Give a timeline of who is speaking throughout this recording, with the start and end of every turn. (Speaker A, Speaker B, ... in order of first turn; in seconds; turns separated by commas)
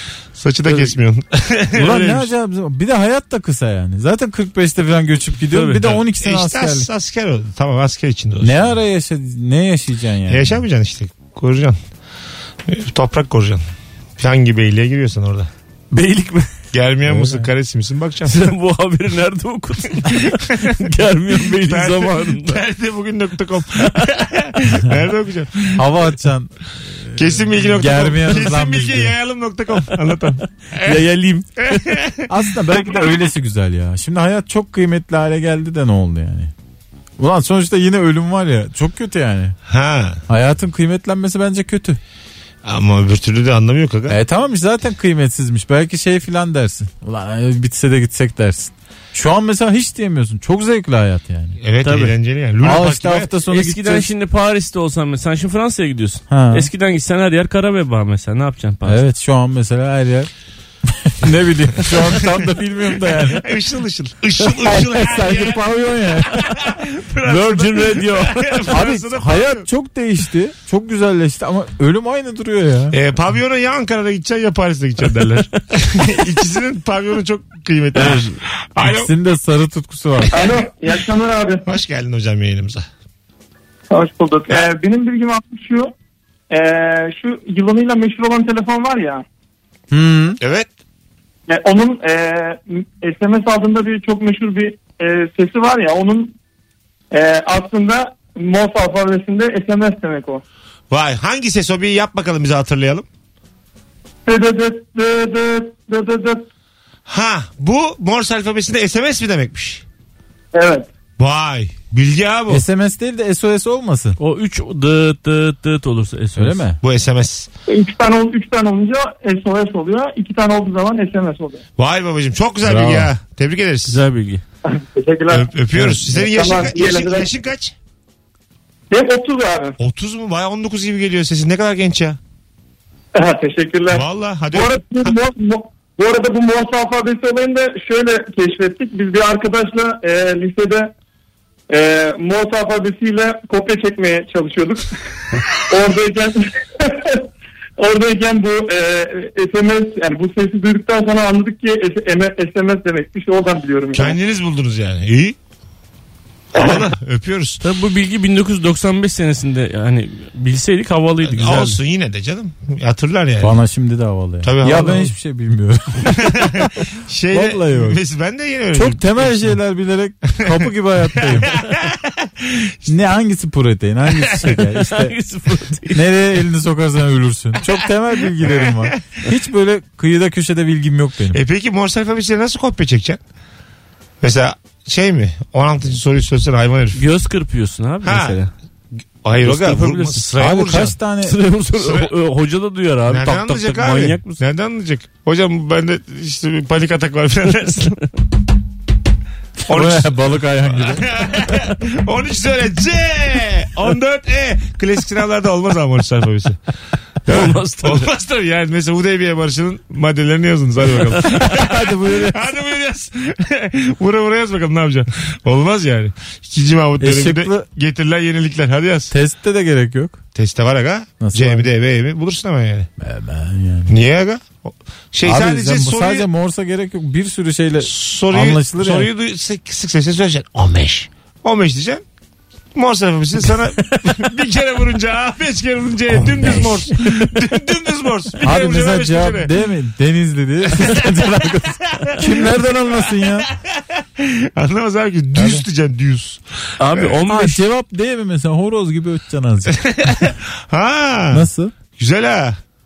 Speaker A: 0.3-2.3, Speaker B: 0.7-0.9, Speaker C: 1.7-6.9, Speaker B: 5.5-5.9, Speaker A: 5.9-8.7, Speaker C: 8.4-10.6, Speaker A: 10.3-11.8, Speaker A: 12.7-13.6, Speaker A: 14.2-15.5, Speaker B: 15.9-16.5, Speaker A: 16.7-18.5, Speaker C: 17.1-17.5, Speaker B: 18.2-22.6, Speaker A: 20.1-20.7, Speaker A: 21.6-25.9, Speaker C: 25.8-29.1, Speaker A: 27.2-31.0, Speaker B: 30.8-31.9, Speaker A: 31.7-32.2, Speaker C: 32.3-36.5, Speaker C: 37.2-39.5, Speaker A: 39.7-40.2, Speaker C: 40.3-42.0, Speaker A: 42.6-44.2, Speaker C: 44.1-51.5, Speaker A: 51.6-53.3, Speaker B: 51.8-52.1, Speaker C: 52.6-54.1, Speaker B: 53.5-59.0, Speaker C: 56.3-56.7, Speaker C: 58.8-60.3, Speaker C: 60.9-63.5, Speaker A: 63.3-65.6, Speaker C: 64.5-66.6, Speaker A: 66.4-69.6, Speaker B: 67.2-68.8, Speaker C: 68.7-73.0, Speaker A: 72.9-79.1, Speaker B: 77.9-78.3, Speaker C: 78.8-80.3, Speaker D: 80.3-81.7, Speaker A: 81.7-82.8, Speaker D: 83.9-85.9, Speaker D: 86.5-89.2, Speaker C: 89.9-90.4, Speaker A: 90.4-90.7, Speaker D: 91.5-96.3, Speaker D: 97.1-100.4, Speaker A: 100.9-103.0, Speaker D: 104.2-106.4, Speaker A: 107.1-109.8, Speaker D: 110.5-110.9, Speaker A: 111.2-112.6, Speaker C: 112.5-114.2, Speaker B: 114.2-116.6, Speaker C: 116.3-116.8, Speaker A: 116.8-117.5, Speaker D: 117.7-121.6, Speaker A: 121.8-124.0, Speaker C: 122.6-123.1, Speaker B: 123.9-124.4, Speaker D: 124.7-127.3, Speaker A: 125.3-127.7, Speaker D: 128.9-129.8, Speaker A: 129.8-132.2, Speaker D: 133.1-140.9, Speaker A: 133.9-135.1, Speaker D: 141.7-144.8, Speaker D: 145.7-147.3, Speaker D: 147.8-154.2, Speaker A: 153.9-155.3, Speaker A: 156.5-157.6, Speaker B: 157.6-161.8, Speaker A: 161.2-163.5, Speaker C: 163.4-166.7, Speaker A: 164.4-165.1, Speaker A: 166.3-169.5, Speaker C: 167.3-168.0, Speaker C: 168.7-171.5, Speaker A: 171.2-172.7, Speaker C: 172.9-175.2, Speaker B: 174.5-176.0, Speaker C: 175.9-181.4, Speaker A: 178.5-178.9, Speaker A: 181.3-183.2, Speaker A: 184.2-187.0, Speaker B: 186.9-188.5, Speaker A: 188.0-188.4, Speaker A: 189.2-191.0, Speaker B: 189.4-190.3, Speaker C: 190.4-191.4, Speaker B: 191.2-194.4, Speaker A: 191.8-192.1, Speaker A: 193.1-198.0, Speaker A: 199.7-206.6, Speaker C: 199.7-201.2, Speaker A: 207.3-219.1, Speaker B: 207.3-208.1, Speaker B: 211.3-211.7, Speaker C: 211.5-212.4, Speaker C: 217.0-217.7, Speaker C: 219.1-220.2, Speaker A: 220.3-222.9, Speaker C: 221.2-221.7, Speaker C: 223.0-223.9, Speaker A: 223.9-226.2, Speaker C: 225.2-229.1, Speaker A: 227.8-232.0, Speaker A: 232.7-239.5, Speaker C: 238.4-243.5, Speaker A: 243.4-247.2, Speaker C: 245.3-245.7, Speaker B: 246.8-247.6, Speaker C: 247.2-249.8, Speaker A: 249.9-252.6, Speaker C: 251.3-251.7